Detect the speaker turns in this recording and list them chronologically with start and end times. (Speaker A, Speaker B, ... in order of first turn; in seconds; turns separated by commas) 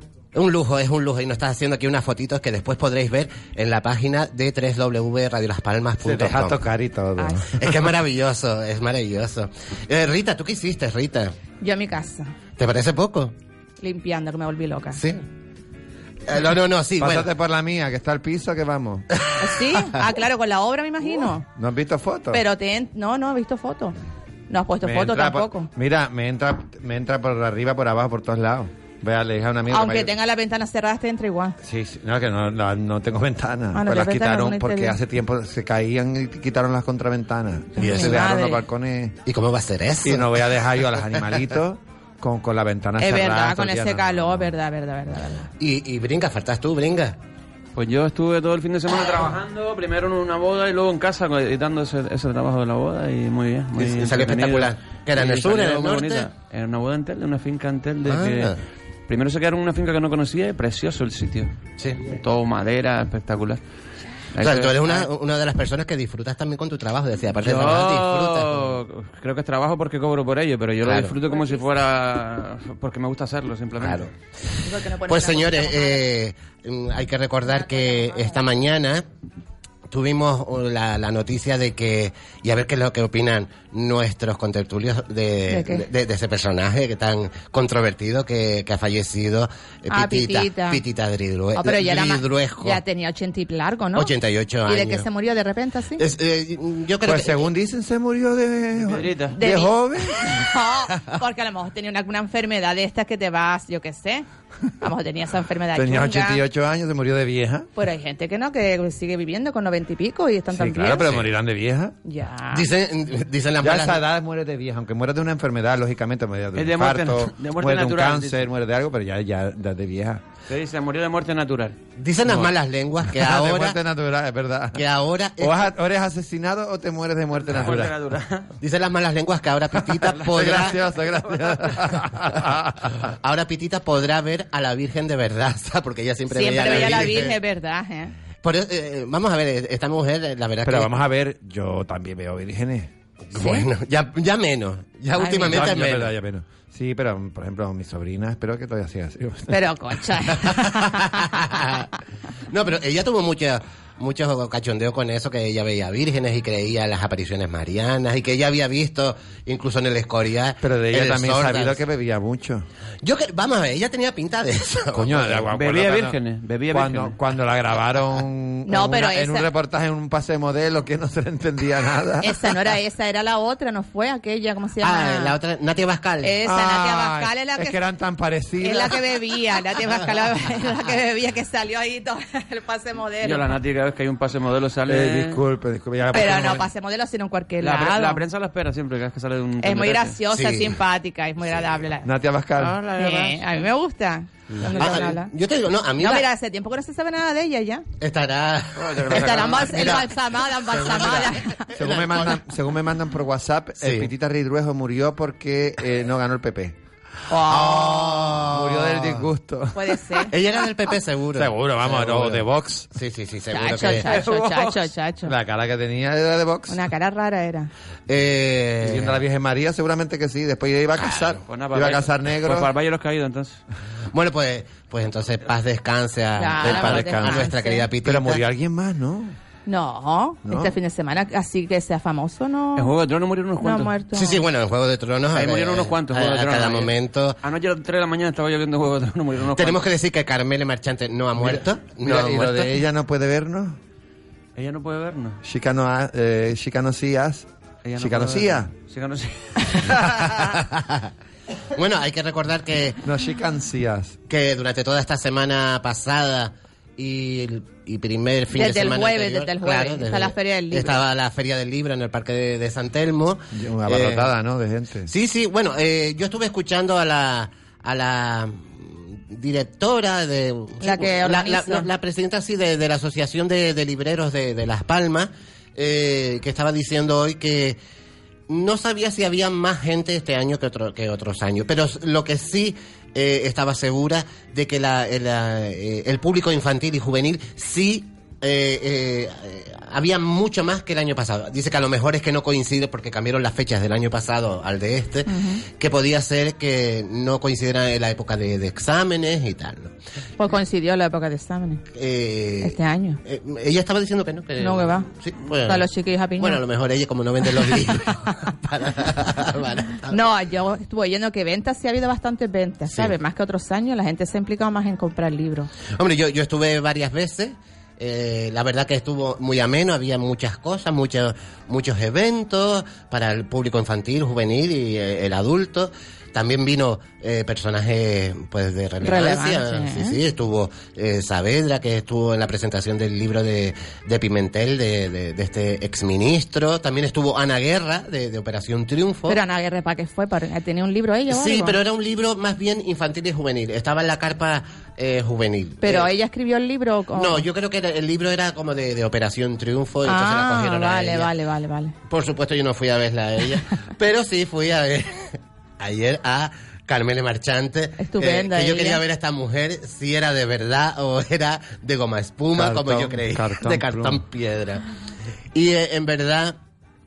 Speaker A: 0.3-6.6, Speaker B: 6.0-7.7, Speaker C: 7.2-7.4, Speaker A: 7.5-11.3, Speaker C: 11.6-12.3, Speaker A: 12.6-13.3, Speaker C: 13.8-15.0, Speaker A: 14.9-15.2, Speaker A: 16.3-17.3, Speaker B: 17.0-19.1, Speaker C: 19.4-21.4, Speaker B: 21.6-22.4, Speaker C: 22.3-23.9, Speaker C: 24.5-25.7, Speaker B: 24.8-30.1, Speaker C: 29.7-31.6, Speaker B: 31.6-39.2, Speaker C: 33.7-35.0, Speaker C: 37.8-38.6, Speaker A: 37.8-38.2, Speaker A: 39.2-40.3, Speaker B: 40.0-44.5, Speaker C: 43.0-45.5, Speaker A: 45.6-47.2, Speaker D: 47.8-58.5, Speaker A: 53.8-56.3, Speaker A: 58.0-58.6, Speaker D: 59.1-63.6, Speaker A: 61.8-62.0, Speaker D: 64.3-65.1, Speaker A: 64.4-68.7, Speaker D: 67.4-74.1, Speaker A: 70.8-71.1, Speaker C: 71.3-71.6, Speaker A: 73.8-74.1, Speaker C: 74.6-76.1, Speaker A: 75.0-79.0, Speaker C: 77.5-78.4, Speaker A: 79.9-92.8, Speaker C: 85.5-85.8, Speaker C: 89.9-90.8, Speaker C: 91.5-94.1, Speaker A: 93.9-95.0, Speaker C: 94.7-96.0, Speaker A: 96.0-97.5, Speaker B: 97.0-100.5, Speaker D: 98.8-99.3, Speaker C: 99.3-104.2, Speaker C: 104.8-106.4, Speaker B: 105.7-107.7, Speaker C: 107.8-111.2, Speaker B: 110.5-112.0, Speaker C: 112.0-112.7, Speaker A: 112.5-114.0, Speaker B: 113.6-120.2, Speaker D: 116.5-118.5, Speaker D: 120.5-121.8, Speaker A: 122.0-123.8, Speaker B: 122.2-122.5, Speaker B: 123.0-124.8, Speaker A: 124.7-125.7, Speaker B: 125.4-127.9, Speaker D: 127.4-128.5, Speaker A: 128.6-130.8, Speaker B: 130.0-133.1, Speaker D: 130.1-132.0, Speaker A: 133.1-137.4, Speaker C: 136.3-138.1, Speaker A: 138.4-140.9, Speaker B: 140.6-142.9, Speaker A: 143.3-146.1, Speaker C: 143.3-143.7, Speaker C: 145.1-145.7, Speaker B: 145.3-149.7, Speaker C: 149.5-151.3, Speaker A: 150.5-151.9, Speaker A: 152.5-161.8, Speaker B: 160.6-162.7, Speaker A: 163.0-165.4, Speaker B: 164.9-166.2, Speaker D: 165.5-167.2, Speaker B: 166.7-172.6, Speaker C: 168.7-169.5, Speaker C: 172.2-175.3, Speaker A: 174.8-176.4, Speaker C: 176.2-177.8, Speaker B: 176.4-179.0, Speaker C: 178.6-183.5, Speaker D: 183.2-185.4, Speaker B: 184.8-186.7, Speaker C: 186.1-188.2, Speaker D: 187.6-190.2, Speaker C: 189.6-192.1, Speaker A: 190.3-190.8, Speaker B: 192.0-192.8, Speaker D: 192.6-193.5, Speaker C: 193.0-195.3, Speaker A: 194.7-196.3, Speaker C: 196.0-197.8, Speaker A: 198.0-200.0, Speaker D: 198.8-200.0, Speaker C: 199.1-201.7, Speaker A: 200.7-202.4, Speaker B: 201.7-206.8, Speaker A: 203.8-204.1, Speaker C: 207.3-208.1, Speaker B: 207.5-210.2, Speaker A: 207.5-209.3, Speaker C: 209.7-210.3, Speaker A: 210.3-214.1, Speaker B: 211.3-212.9, Speaker C: 213.5-215.3, Speaker D: 214.0-214.9, Speaker B: 215.2-216.8, Speaker C: 216.7-217.7, Speaker A: 218.1-219.2, Speaker B: 218.8-222.7, Speaker D: 221.4-223.6, Speaker A: 224.1-228.4, Speaker C: 226.4-227.8, Speaker B: 226.6-227.5, Speaker B: 228.0-229.3, Speaker C: 229.7-232.9, Speaker B: 230.4-230.7, Speaker D: 232.8-233.9, Speaker C: 233.6-234.4, Speaker A: 234.1-237.4, Speaker D: 235.3-239.8, Speaker A: 239.5-242.7, Speaker B: 241.4-243.8, Speaker D: 244.6-245.4, Speaker B: 245.4-247.5, Speaker D: 247.8-249.9, Speaker B: 248.0-248.7, Speaker A: 250.1-251.1, Speaker A: 251.7-253.0, Speaker B: 253.0-254.2, Speaker A: 254.3-264.3, Speaker C: 258.5-261.0, Speaker B: 263.5-265.1, Speaker A: 265.1-277.8, Speaker C: 270.8-271.9, Speaker A: 278.5-299.9, Speaker C: 295.3-295.6, Speaker C: 300.4-301.8, Speaker A: 301.9-310.2, Speaker C: 302.6-303.2, Speaker C: 304.6-305.1, Speaker C: 305.6-306.6, Speaker C: 310.1-315.7, Speaker A: 312.9-313.1, Speaker A: 315.9-339.4, Speaker C: 329.0-330.2, Speaker C: 339.3-341.8, Speaker A: 341.3-346.1, Speaker C: 345.8-347.4, Speaker A: 347.1-351.3, Speaker C: 350.0-351.9, Speaker A: 352.1-364.8, Speaker C: 358.0-359.0, Speaker B: 362.5-364.2, Speaker A: 365.5-366.6